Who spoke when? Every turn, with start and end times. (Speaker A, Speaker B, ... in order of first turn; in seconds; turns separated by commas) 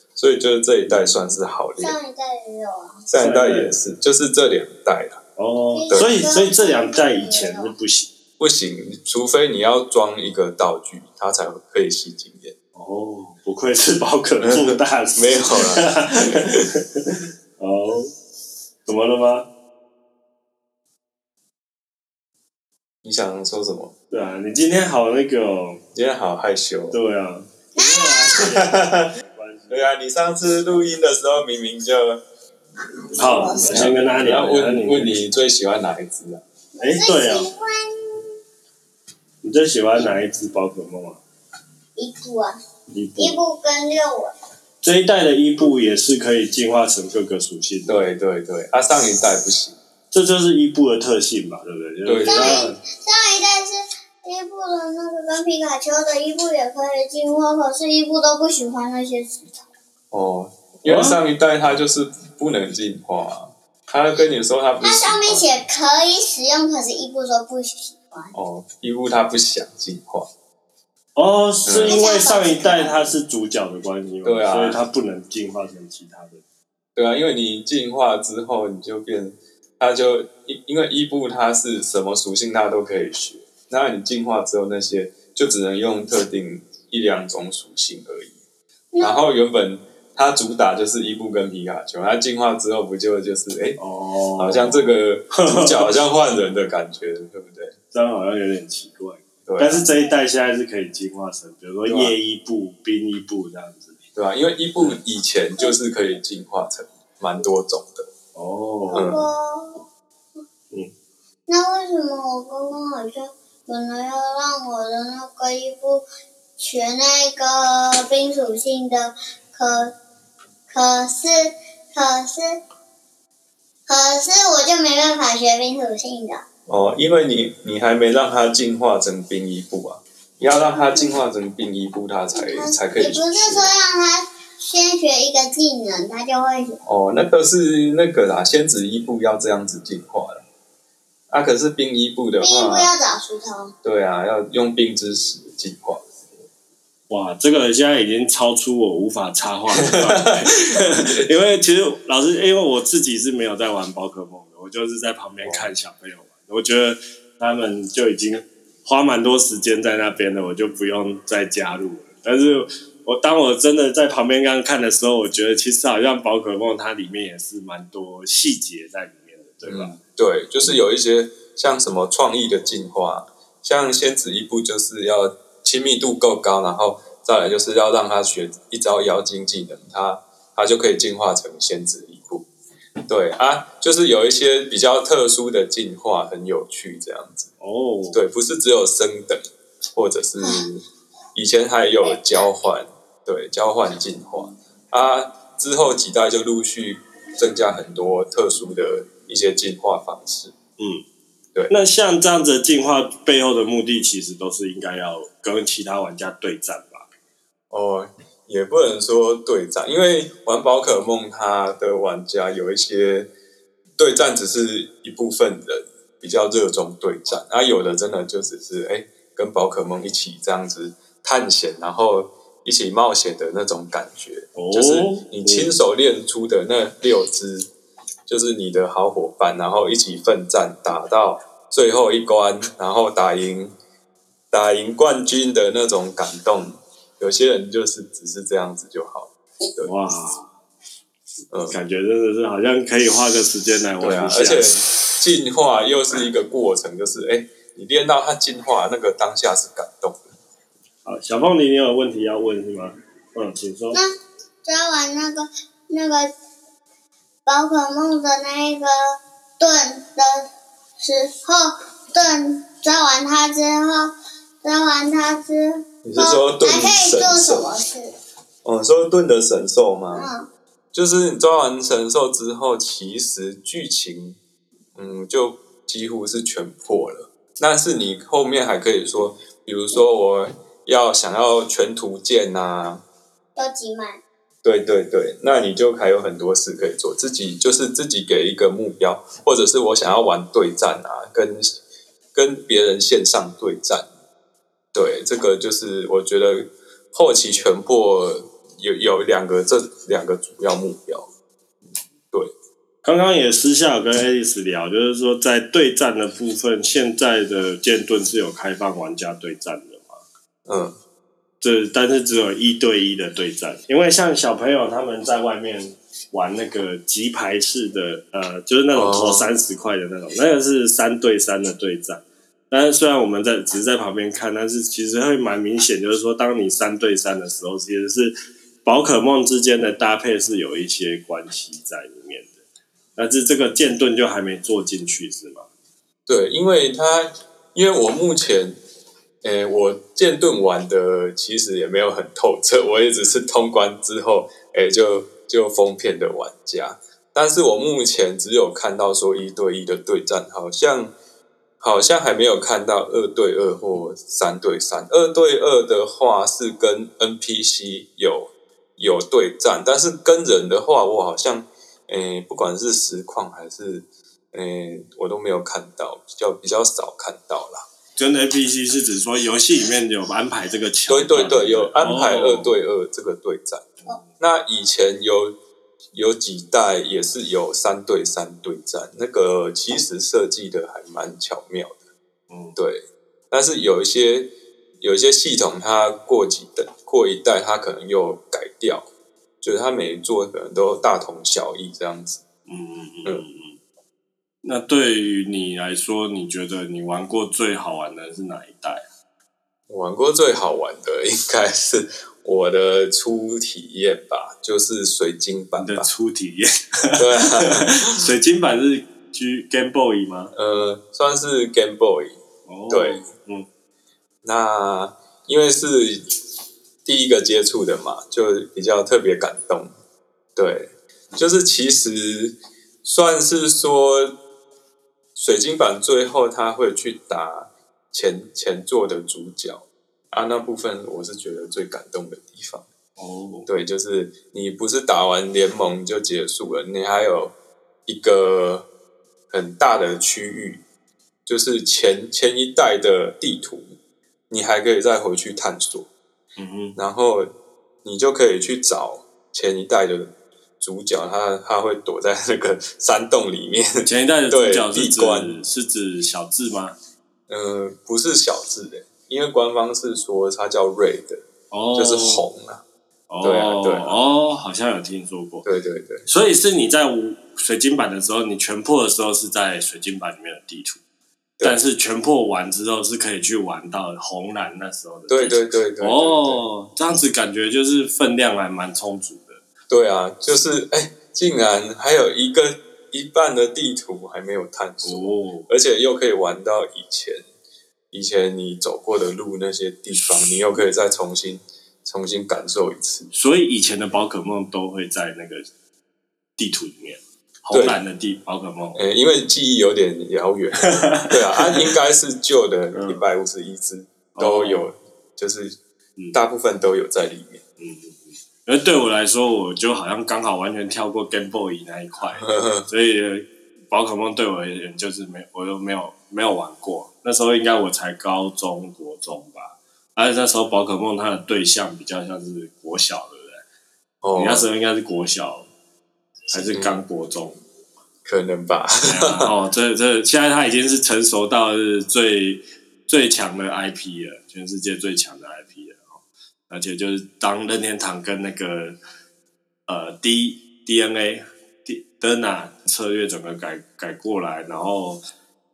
Speaker A: 0.2-2.0, Speaker B: 0.9-1.2, Speaker C: 1.8-3.0, Speaker A: 3.1-5.2, Speaker B: 3.2-3.8, Speaker B: 5.4-8.1, Speaker C: 5.7-7.7, Speaker A: 8.4-12.6, Speaker B: 12.8-18.1, Speaker A: 14.4-16.6, Speaker B: 18.9-19.5, Speaker A: 23.0-23.9, Speaker B: 24.1-25.8, Speaker A: 25.9-27.0, Speaker B: 26.9-29.9, Speaker C: 27.8-28.6, Speaker A: 28.3-29.1, Speaker A: 29.7-32.2, Speaker B: 33.2-35.3, Speaker C: 33.2-33.9, Speaker A: 33.4-36.4, Speaker C: 36.7-38.4, Speaker B: 36.8-37.5, Speaker B: 39.4-41.2, Speaker C: 42.0-42.6, Speaker B: 42.9-43.4, Speaker C: 43.2-44.3, Speaker B: 44.8-48.0, Speaker A: 47.9-49.8, Speaker B: 50.1-52.7, Speaker A: 52.0-52.8, Speaker C: 52.3-59.7, Speaker A: 60.1-65.5, Speaker B: 60.8-61.2, Speaker C: 64.8-68.3, Speaker A: 68.3-70.3, Speaker B: 71.2-76.4, Speaker A: 71.7-72.0, Speaker C: 71.9-73.2, Speaker A: 74.2-74.8, Speaker A: 77.0-88.3, Speaker C: 88.9-89.2, Speaker A: 89.0-93.8, Speaker B: 93.8-96.0, Speaker A: 94.4-97.8, Speaker B: 97.9-104.0, Speaker A: 99.5-99.9, Speaker A: 101.9-102.2, Speaker A: 104.2-108.1, Speaker B: 108.3-109.2, Speaker C: 108.9-109.9, Speaker A: 108.9-109.3, Speaker C: 111.5-116.1, Speaker C: 116.6-120.0, Speaker C: 120.7-122.6, Speaker C: 123.9-126.4, Speaker A: 126.7-133.7, Speaker C: 132.4-136.8, Speaker A: 136.9-140.4, Speaker A: 141.3-142.9, Speaker C: 142.4-143.7, Speaker A: 143.8-146.0, Speaker B: 147.1-170.0, Speaker A: 149.8-151.2, Speaker A: 169.6-182.5, Speaker A: 183.1-187.5, Speaker B: 187.6-188.2, Speaker A: 188.1-190.8, Speaker C: 190.4-190.7, Speaker A: 191.3-200.5, Speaker B: 200.8-201.0, Speaker B: 201.7-207.1, Speaker A: 207.7-213.3, Speaker A: 214.0-227.7, Speaker B: 224.6-225.7, Speaker A: 228.3-233.8, Speaker A: 234.5-239.9, Speaker B: 239.8-240.5, Speaker A: 241.5-241.8, Speaker B: 241.7-244.8, Speaker A: 244.0-250.3, Speaker B: 251.1-254.0, Speaker C: 254.7-256.3, Speaker C: 257.5-260.5, Speaker C: 261.0-268.1, Speaker A: 266.1-267.7, Speaker A: 268.6-270.3, Speaker C: 270.1-270.5, Speaker A: 270.9-274.4, Speaker A: 275.0-283.0, Speaker C: 283.6-284.2, Speaker A: 284.6-291.8, Speaker A: 292.3-294.1, Speaker A: 294.9-301.3, Speaker B: 303.0-310.2, Speaker A: 310.7-311.0, Speaker B: 311.6-332.6, Speaker A: 318.9-319.5, Speaker B: 333.2-335.7, Speaker A: 336.3-338.8, Speaker A: 339.4-351.1, Speaker A: 351.8-367.8, Speaker B: 368.2-372.8, Speaker A: 371.1-373.9, Speaker A: 374.4-375.6, Speaker A: 376.1-382.0, Speaker B: 382.5-382.8, Speaker A: 382.8-389.1, Speaker A: 389.6-392.4, Speaker B: 392.7-393.8, Speaker B: 394.6-399.0, Speaker A: 399.9-406.1, Speaker B: 405.8-410.5, Speaker A: 407.2-408.3, Speaker A: 410.5-413.3, Speaker B: 412.7-413.7, Speaker A: 414.4-416.3, Speaker A: 417.1-419.9, Speaker A: 420.6-424.4, Speaker A: 425.4-432.9, Speaker B: 433.2-433.7, Speaker A: 433.7-437.6, Speaker A: 438.1-438.9, Speaker A: 439.5-440.8, Speaker A: 441.5-443.9, Speaker A: 444.5-446.1, Speaker B: 446.6-447.0, Speaker A: 447.0-447.5, Speaker A: 448.0-455.6, Speaker B: 454.1-456.9, Speaker A: 457.5-462.8, Speaker B: 461.7-462.5, Speaker B: 463.3-465.7, Speaker A: 463.4-464.2, Speaker A: 465.6-466.3, Speaker B: 466.3-471.0, Speaker B: 471.6-479.6, Speaker A: 475.3-476.6, Speaker A: 479.9-487.4, Speaker B: 485.0-485.7, Speaker A: 488.1-493.3, Speaker B: 493.3-495.7, Speaker B: 496.6-499.0, Speaker A: 497.7-498.0, Speaker A: 498.9-505.8, Speaker B: 500.9-501.9, Speaker B: 502.9-503.2, Speaker B: 504.4-504.9, Speaker A: 506.3-507.6, Speaker B: 507.8-523.6, Speaker A: 512.4-512.9, Speaker A: 524.2-524.7, Speaker B: 524.4-525.7, Speaker B: 526.5-527.6, Speaker A: 526.6-527.0, Speaker A: 528.2-529.5, Speaker B: 529.1-536.2, Speaker B: 536.7-539.0, Speaker B: 539.9-545.2